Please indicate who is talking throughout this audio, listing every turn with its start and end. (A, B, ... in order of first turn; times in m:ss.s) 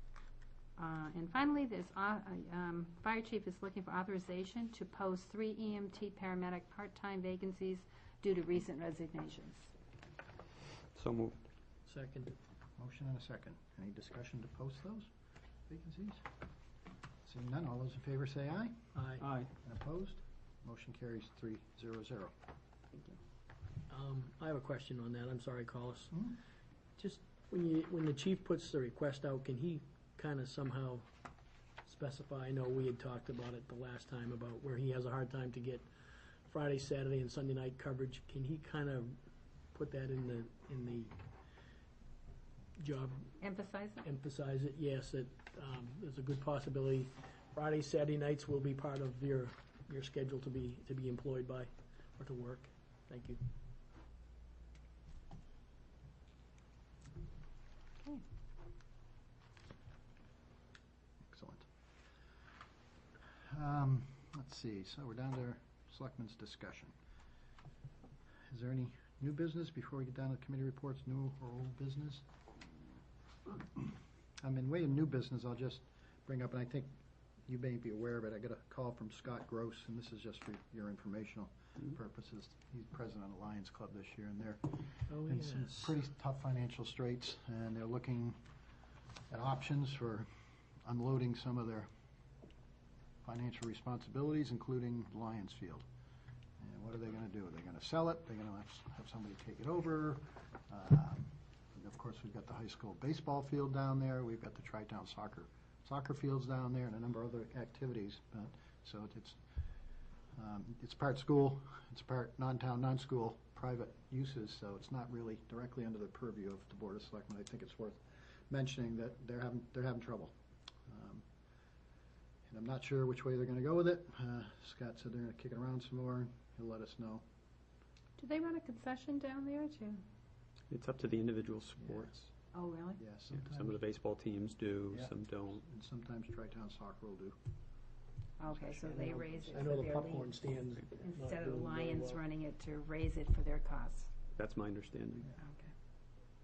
0:00.8-0:09.7 A
0:10.9-0:11.4 B
0:11.9-0:12.3 C
0:12.8-0:15.1 D
0:15.7-0:16.3 D
0:17.2-0:18.9 D
0:19.0-0:19.2 C
0:19.2-0:19.5 B
0:19.6-0:22.3 D
0:23.9-0:26.3 C
0:27.0-0:31.1 C
0:31.8-0:35.9 C
0:36.5-0:39.2 C
0:39.7-0:41.1 C
0:42.8-0:43.4 C
0:43.4-0:44.0 A
0:44.0-0:53.4 C
1:01.3-1:01.7 D
1:03.4-1:06.9 D
1:08.5-1:12.2 D
1:13.5-1:16.9 D
1:17.5-1:28.4 D
1:25.1-1:25.9 C
1:29.3-1:30.3 D
1:30.8-1:31.9 D
1:33.2-1:35.8 D
1:36.6-1:49.4 D
1:50.3-2:00.3 D
2:00.9-2:01.2 D
2:02.5-2:07.2 D
2:08.2-2:10.0 A
2:10.7-2:12.3 B
2:12.5-2:13.0 A
2:13.0-2:13.8 D
2:13.3-2:15.6 B
2:14.9-2:17.4 D
2:18.4-2:20.4 A
2:18.5-2:19.7 D
2:19.1-2:22.2 C
2:21.0-2:24.1 A
2:24.4-2:25.3 B
2:25.4-2:25.7 A